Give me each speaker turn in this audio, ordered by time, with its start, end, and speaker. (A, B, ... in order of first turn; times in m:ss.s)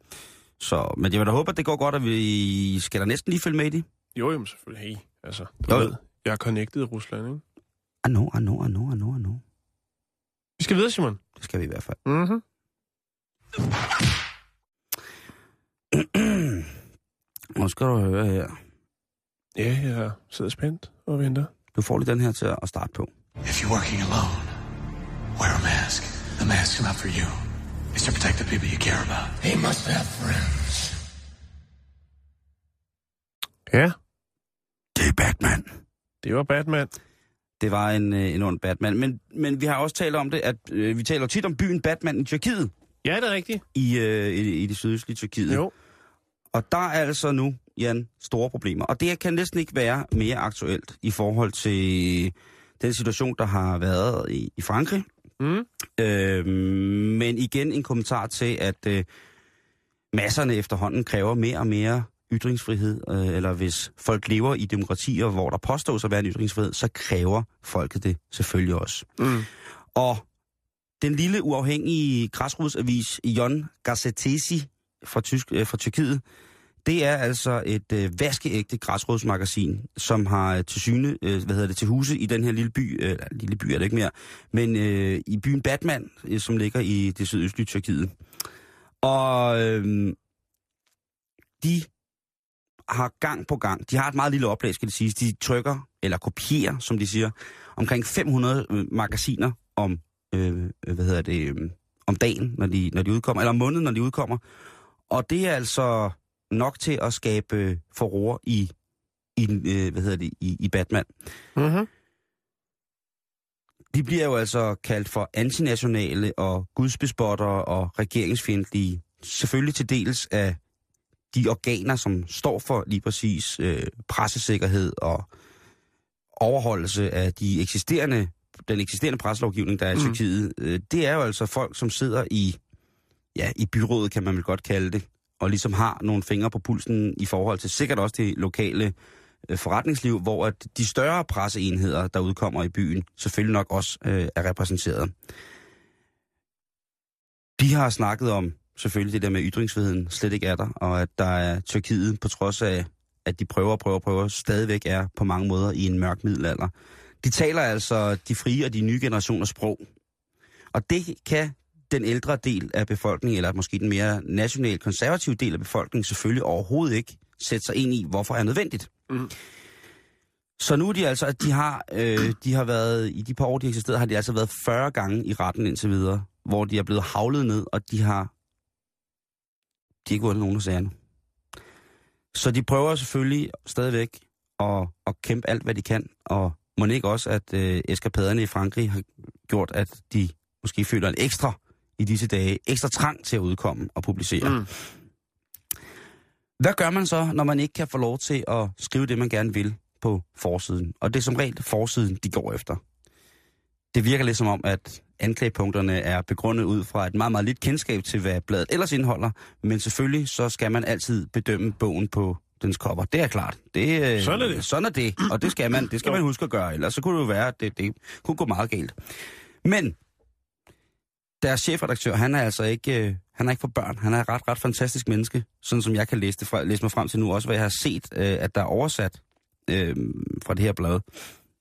0:00.6-0:03.9 A
0:04.2-0:07.4 B
0:05.7-0:05.9 A
0:08.0-0:09.4 A
0:10.6-0:11.2 B
0:11.4-0:12.0 A
0:12.0-0:12.4 B
0:15.9-0:16.7 A
0:17.6-0:18.6 A
0:19.6-0:21.5 B
0:21.7-0:23.1 A
0:23.4-0:24.5 C
0:25.4-0:27.3 C
0:27.9-0:30.6 C
0:33.7-0:34.0 B
0:35.0-0:35.7 A
0:36.2-0:36.9 B
0:37.6-0:42.7 A
0:43.0-0:43.6 B
0:43.7-0:45.6 A
0:45.5-0:45.7 B
0:46.5-0:55.1 A
0:55.4-0:55.7 B
0:56.0-0:59.1 A
1:00.1-1:09.2 A
1:09.2-1:09.5 B
1:09.9-1:10.2 A
1:11.0-1:16.2 A
1:16.8-1:28.2 A
1:29.0-1:30.2 A
1:31.6-1:31.9 A
1:32.9-1:44.4 A
1:45.1-1:48.7 A
1:49.4-1:51.1 A
1:51.6-1:51.9 B
1:53.9-2:00.6 A
2:01.3-2:05.3 A
2:06.4-2:12.6 A
2:13.3-2:18.9 A
2:19.5-2:25.1 A
2:27.6-2:39.8 A
2:40.7-2:48.9 A
2:50.6-2:58.3 A
3:00.0-3:00.9 A
3:02.3-3:14.7 A
3:14.4-3:14.7 B
3:16.6-3:22.8 A
3:23.9-3:39.0 A
3:34.2-3:34.7 B
3:39.6-3:40.0 A
3:41.4-3:51.0 A